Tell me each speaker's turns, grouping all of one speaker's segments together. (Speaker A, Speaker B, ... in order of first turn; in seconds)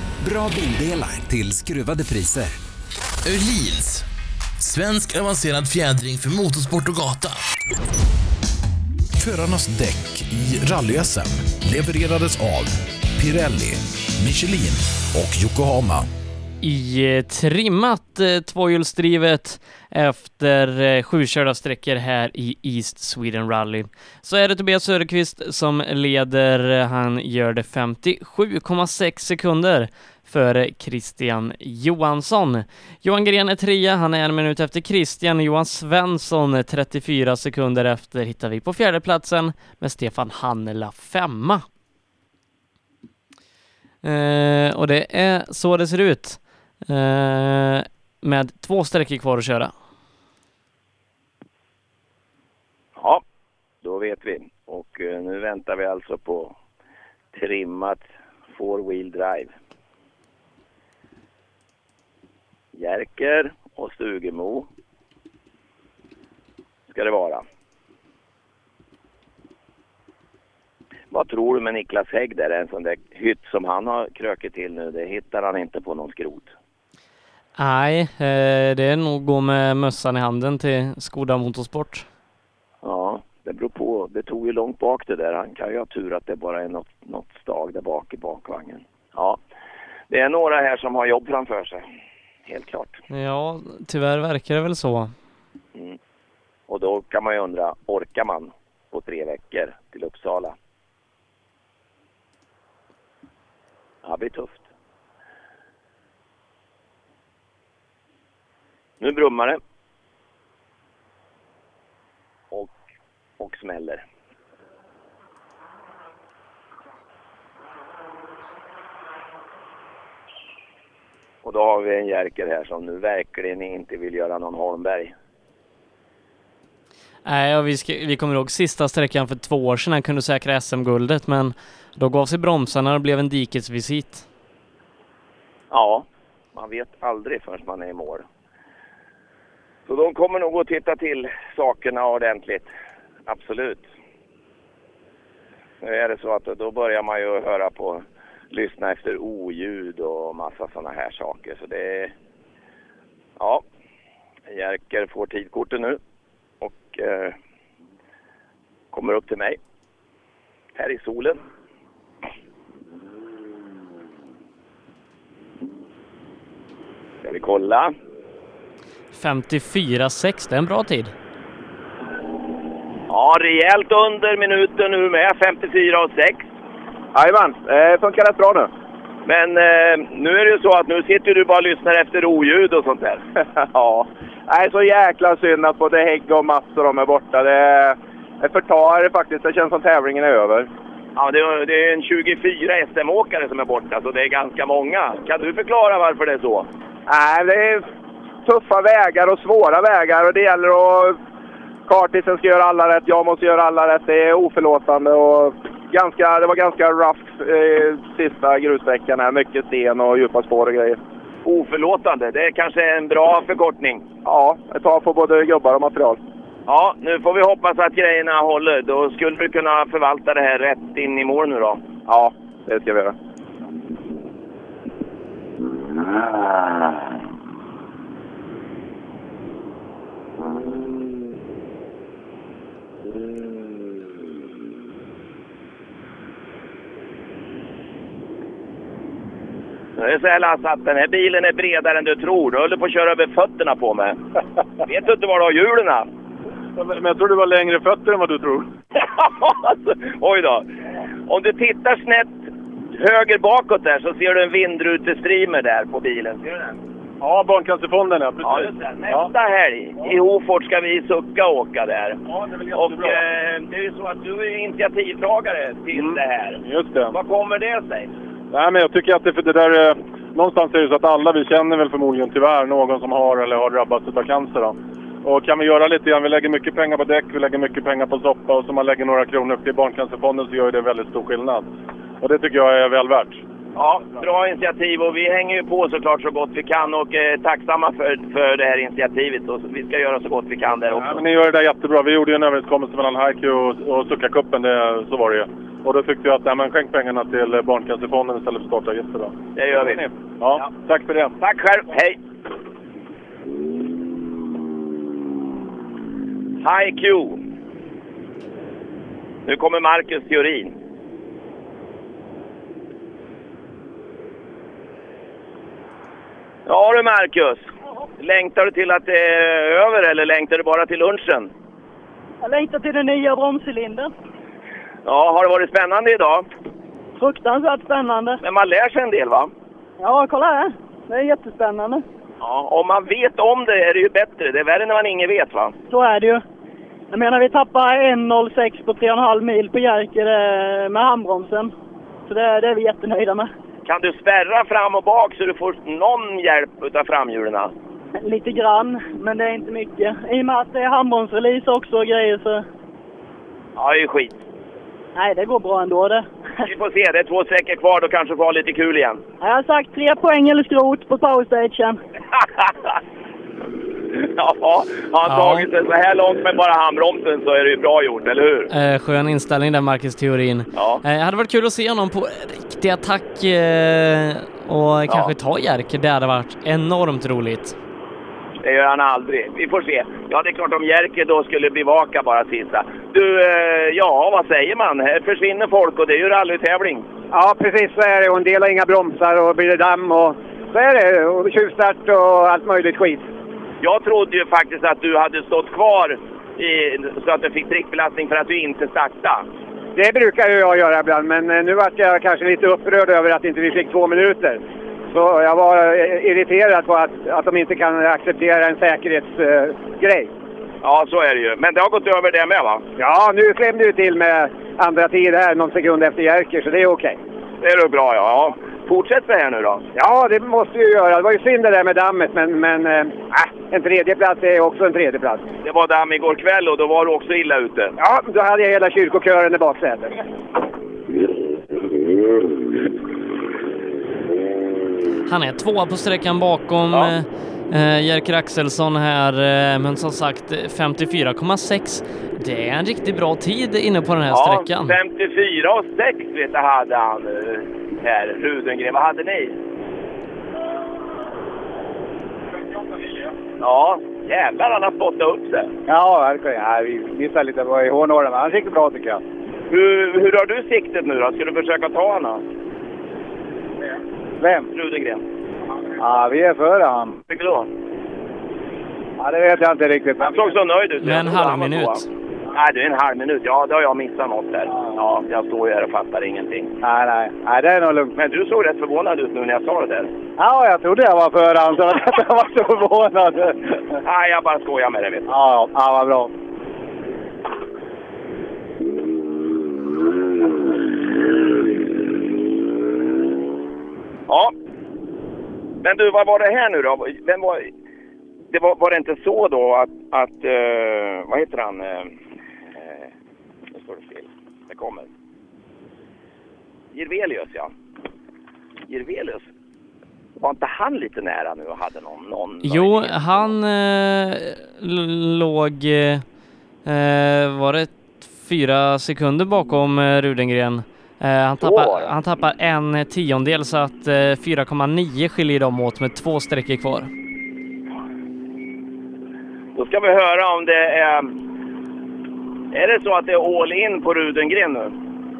Speaker A: 0.2-2.6
Speaker B: 3.3-4.0, 4.6-7.4
Speaker C: 9.2-16.1
Speaker D: 16.6-41.6, 44.0-49.7, 77.6-82.1, 93.1-95.1, 127.2-134.3, 169.1-171.1, 365.3-365.7, 368.7-377.8, 435.3-445.0, 471.0-472.1, 512.6-516.2, 516.9-527.1
Speaker E: 53.0-53.2, 53.8-56.6, 57.3-59.5, 62.7-64.7, 66.9-67.4, 71.1-76.5, 82.8-89.4, 90.1-91.8, 92.5-93.0, 96.7-100.5, 104.0-104.7, 109.0-109.6, 112.5-112.8, 113.4-114.0, 121.4-125.1, 135.7-138.3, 139.9-142.7, 143.3-143.9, 145.8-152.1, 153.4-153.7, 154.5-156.0, 156.6-157.4, 158.9-159.6, 160.8-161.4, 167.2-167.9, 173.1-176.5, 179.3-183.2, 191.2-196.7, 211.4-214.1, 216.7-221.8, 240.0-244.2, 244.8-246.1, 248.9-250.7, 251.3-256.8, 258.4-268.1, 283.8-291.2, 299.6-300.7, 301.4-302.2, 306.6-307.4, 309.5-310.7, 316.7-321.5, 325.1-326.5, 328.4-329.5, 332.4-335.8, 343.9-347.7, 353.8-354.4, 356.6-359.2, 362.4-362.7, 364.1-368.7, 370.7-371.0, 378.6-387.1, 393.8-399.4, 410.8-412.8, 417.6-419.8, 425.6-427.9, 444.3-449.6, 453.6-455.7, 459.7-462.4, 464.7-465.2, 467.3-467.7, 470.2-476.7, 478.1-480.1, 483.9-485.3, 494.3-494.5, 495.8-497.7, 498.5-502.1, 502.8-503.1, 503.7-505.1, 506.9-507.7, 508.9-509.5, 510.4-513.4, 521.6-522.1, 529.8-531.4, 532.7-534.9
Speaker F: 177.2-178.7, 183.7-190.7, 197.1-197.9, 198.4-201.2, 201.9-211.0, 214.2-216.2, 222.1-223.2
Speaker G: 246.8-248.7, 257.2-259.3, 262.7-263.2, 266.0-267.1, 268.5-281.7, 282.2-283.4, 291.0-301.3
Speaker H: 322.4-324.1, 327.2-328.4, 330.0-332.0, 335.9-336.4, 337.1-341.7, 342.3-343.5, 348.2-352.6, 355.2-356.3, 359.4-362.0
Speaker I: 387.3-393.3, 400.0-410.3, 413.0-417.2, 419.9-425.5, 428.0-430.2, 455.9-459.2, 464.4-464.7, 466.0-467.1, 469.2-470.5, 476.8-478.1, 480.4-483.5, 485.3-486.3